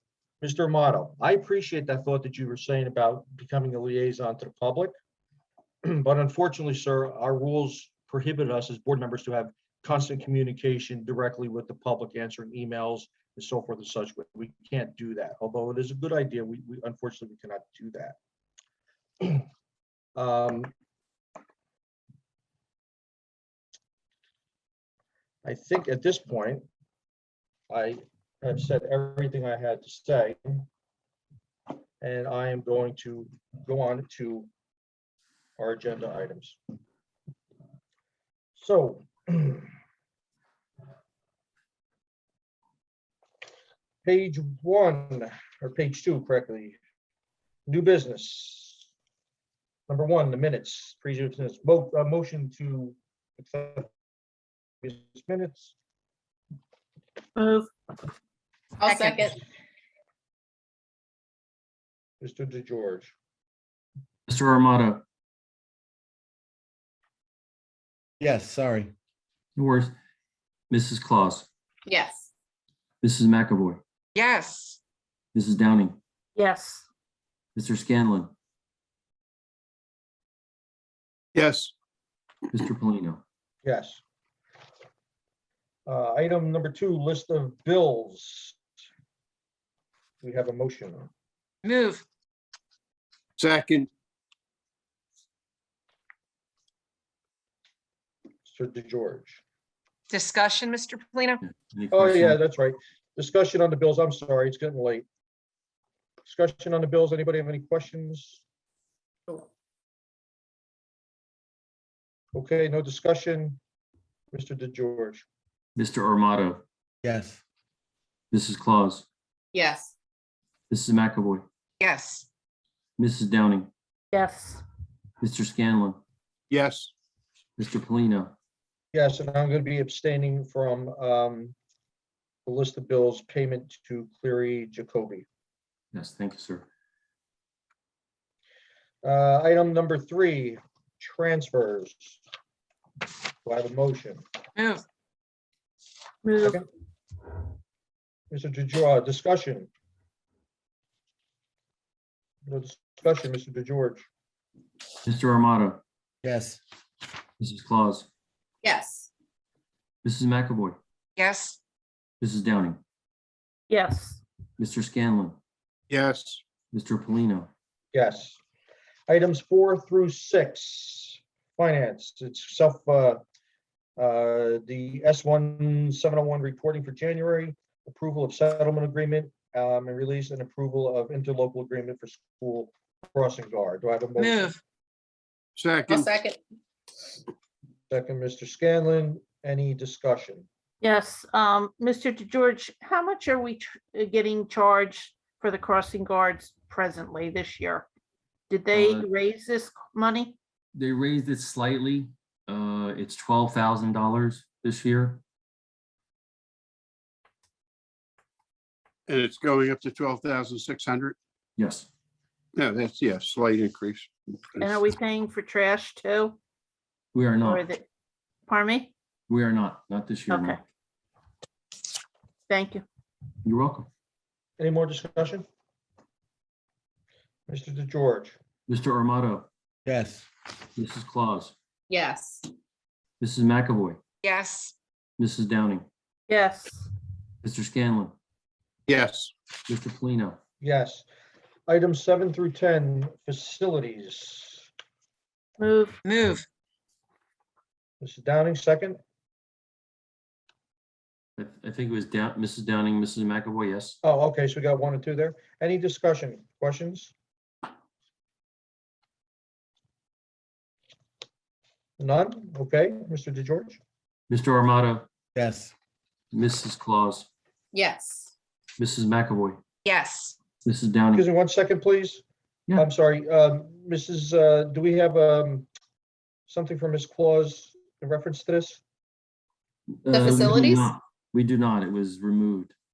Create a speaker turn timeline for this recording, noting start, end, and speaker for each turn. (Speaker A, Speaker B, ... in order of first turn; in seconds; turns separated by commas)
Speaker A: 0.4-4.9, Speaker A: 5.8-18.2, Speaker A: 19.2-19.5, Speaker A: 20.1-20.7, Speaker A: 25.4-26.6, Speaker A: 27.7-30.6, Speaker A: 32.0-34.5, Speaker A: 35.6-36.6, Speaker A: 38.6-39.7, Speaker A: 44.0-46.8, Speaker A: 47.7-48.9, Speaker A: 49.9-53.9, Speaker A: 54.8-55.7, Speaker B: 57.4-57.7, Speaker C: 58.8-59.4, Speaker A: 62.2-63.1, Speaker D: 64.3-65.0, Speaker E: 68.2-68.9, Speaker D: 69.5-69.9, Speaker D: 70.7-71.5, Speaker C: 71.9-72.3, Speaker D: 73.0-73.8, Speaker F: 74.1-74.8, Speaker D: 75.3-76.0, Speaker B: 76.3-76.8, Speaker D: 77.5-78.3, Speaker G: 81.3-81.7, Speaker D: 82.5-83.2, Speaker A: 83.6-84.0, Speaker A: 85.8-88.6, Speaker A: 90.2-91.1, Speaker F: 91.6-92.0, Speaker G: 93.4-93.9, Speaker A: 98.5-99.4, Speaker F: 100.1-101.4, Speaker D: 101.4-102.4, Speaker A: 101.9-105.0, Speaker A: 106.2-108.4, Speaker A: 112.3-113.6, Speaker A: 114.3-115.2, Speaker D: 115.8-116.6, Speaker E: 117.0-117.4, Speaker D: 118.3-119.1, Speaker C: 119.5-119.9, Speaker D: 120.7-121.4, Speaker F: 121.8-122.2, Speaker D: 123.0-123.7, Speaker B: 124.1-124.6, Speaker D: 125.2-126.0, Speaker G: 126.5-126.9, Speaker D: 127.6-128.3, Speaker A: 128.9-131.5, Speaker A: 132.4-135.2, Speaker D: 135.9-136.7, Speaker A: 139.0-142.2, Speaker A: 143.4-144.2, Speaker F: 144.6-144.8, Speaker B: 146.2-146.6, Speaker A: 148.3-149.7, Speaker A: 152.4-154.1, Speaker D: 155.0-155.8, Speaker E: 156.2-156.6, Speaker D: 157.4-158.1, Speaker C: 158.6-159.1, Speaker D: 160.0-160.8, Speaker F: 161.2-161.6, Speaker D: 162.2-162.8, Speaker B: 163.7-164.2, Speaker D: 164.6-165.4, Speaker G: 165.9-166.4, Speaker D: 166.7-167.5, Speaker A: 167.9-168.4, Speaker A: 169.1-173.2, Speaker A: 174.0-184.5, Speaker F: 184.2-184.6, Speaker G: 185.6-186.1, Speaker C: 185.9-186.4, Speaker A: 187.9-190.5, Speaker B: 190.8-197.8, Speaker B: 198.5-200.4, Speaker D: 198.7-199.1, Speaker D: 200.8-205.2, Speaker G: 209.1-211.2, Speaker D: 211.6-211.9, Speaker G: 212.5-214.7, Speaker B: 214.6-216.4, Speaker D: 217.1-217.6, Speaker B: 217.4-217.8, Speaker B: 218.5-218.9, Speaker D: 219.3-220.6, Speaker B: 220.3-220.6, Speaker B: 222.5-222.8, Speaker D: 223.4-223.9, Speaker A: 224.6-225.4, Speaker A: 227.5-228.3, Speaker D: 228.7-229.5, Speaker E: 229.8-230.2, Speaker D: 230.8-231.5, Speaker C: 231.9-232.4, Speaker D: 233.2-234.0, Speaker F: 234.2-234.7, Speaker D: 235.2-235.8, Speaker B: 236.3-236.9, Speaker D: 237.4-238.1, Speaker G: 238.9-239.3, Speaker D: 239.7-240.4, Speaker A: 240.6-241.1, Speaker A: 241.7-244.7, Speaker B: 245.6-246.0, Speaker F: 246.0-246.5, Speaker A: 248.0-249.0, Speaker D: 251.4-254.0, Speaker A: 254.0-257.1, Speaker A: 262.0-263.8, Speaker D: 264.3-265.1, Speaker E: 265.4-265.7, Speaker D: 266.3-267.3, Speaker C: 267.7-268.3, Speaker D: 268.8-269.6, Speaker F: 269.9-270.4, Speaker D: 270.6-271.2, Speaker A: 271.1-275.7, Speaker A: 276.5-278.8, Speaker D: 280.0-282.7, Speaker C: 280.1-280.9